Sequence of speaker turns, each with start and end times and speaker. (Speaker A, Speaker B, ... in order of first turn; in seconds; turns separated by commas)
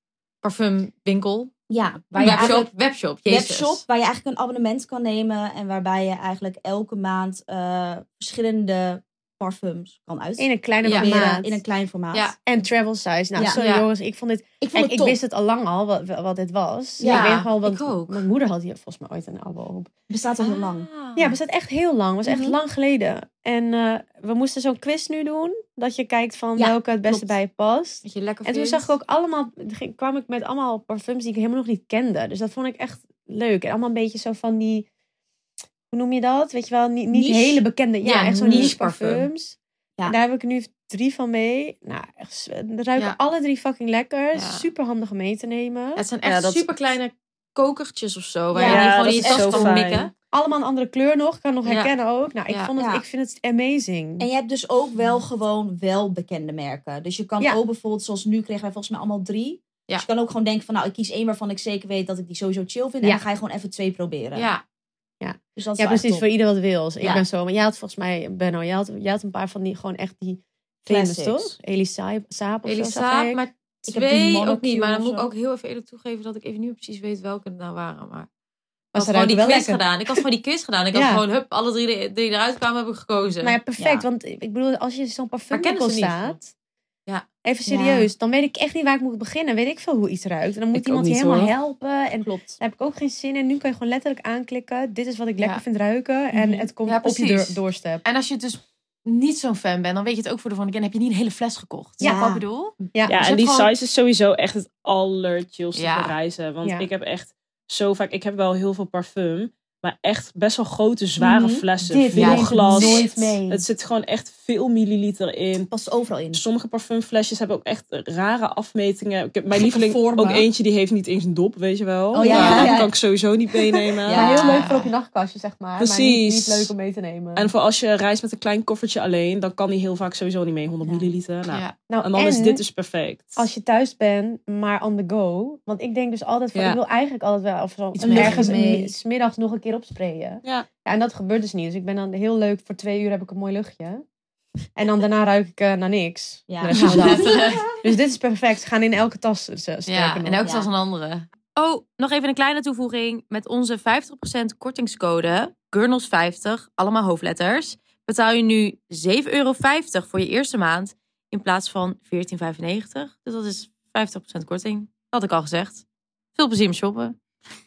Speaker A: 0.4-1.5, Speaker B: 1.7-2.7, Speaker A: 2.1-3.8, Speaker C: 2.2-2.5, Speaker B: 3.2-12.3, Speaker C: 10.4-11.6, Speaker A: 10.8-11.1, Speaker C: 12.5-19.9, Speaker B: 13.3-13.6, Speaker A: 13.5-13.9, Speaker B: 14.6-15.2, Speaker B: 17.0-17.3, Speaker A: 17.0-18.2, Speaker B: 20.1-20.9, Speaker A: 20.4-21.4, Speaker C: 21.1-34.9, Speaker B: 22.2-22.6, Speaker B: 26.6-27.4, Speaker A: 28.0-28.9, Speaker C: 35.9-39.6, Speaker B: 37.1-37.6, Speaker A: 38.0-39.3, Speaker C: 40.1-46.1, Speaker A: 44.3-44.7, Speaker A: 46.0-50.1, Speaker B: 48.5-49.8, Speaker D: 48.6-50.1, Speaker C: 50.3-54.3, Speaker A: 51.6-51.9, Speaker B: 52.8-53.0, Speaker B: 54.2-64.5, Speaker A: 64.3-64.6, Speaker C: 65.2-73.4, Speaker B: 65.6-66.3, Speaker B: 70.9-71.5, Speaker A: 72.6-78.3, Speaker B: 73.9-75.3, Speaker C: 78.9-80.2, Speaker A: 78.9-83.6, Speaker C: 80.9-81.2, Speaker C: 83.4-86.4, Speaker B: 83.8-84.1, Speaker A: 85.5-86.5, Speaker C: 87.4-98.0, Speaker B: 87.7-88.1, Speaker D: 90.7-91.5, Speaker B: 92.2-92.6, Speaker B: 96.3-96.7, Speaker A: 96.8-103.7, Speaker B: 102.0-102.5, Speaker C: 102.0-102.3, Speaker C: 102.9-103.4, Speaker D: 103.1-115.7, Speaker A: 105.7-106.2, Speaker C: 106.6-106.9, Speaker C: 111.2-113.6, Speaker A: 112.1-113.1, Speaker B: 115.7-116.4, Speaker D: 116.3-124.3, Speaker B: 119.5-120.5, Speaker B: 122.1-122.9, Speaker C: 122.2-122.8, Speaker B: 124.1-124.8, Speaker C: 124.1-127.5, Speaker A: 124.1-124.9, Speaker D: 125.8-126.7, Speaker D: 127.4-133.5, Speaker B: 130.8-131.1, Speaker A: 131.5-131.8, Speaker C: 131.9-132.6, Speaker C: 133.4-144.0, Speaker A: 137.9-138.5, Speaker B: 138.1-138.9, Speaker C: 144.8-150.4, Speaker B: 146.5-147.6, Speaker A: 146.7-147.7, Speaker A: 149.9-165.8, Speaker B: 150.4-150.7, Speaker A: 166.3-167.2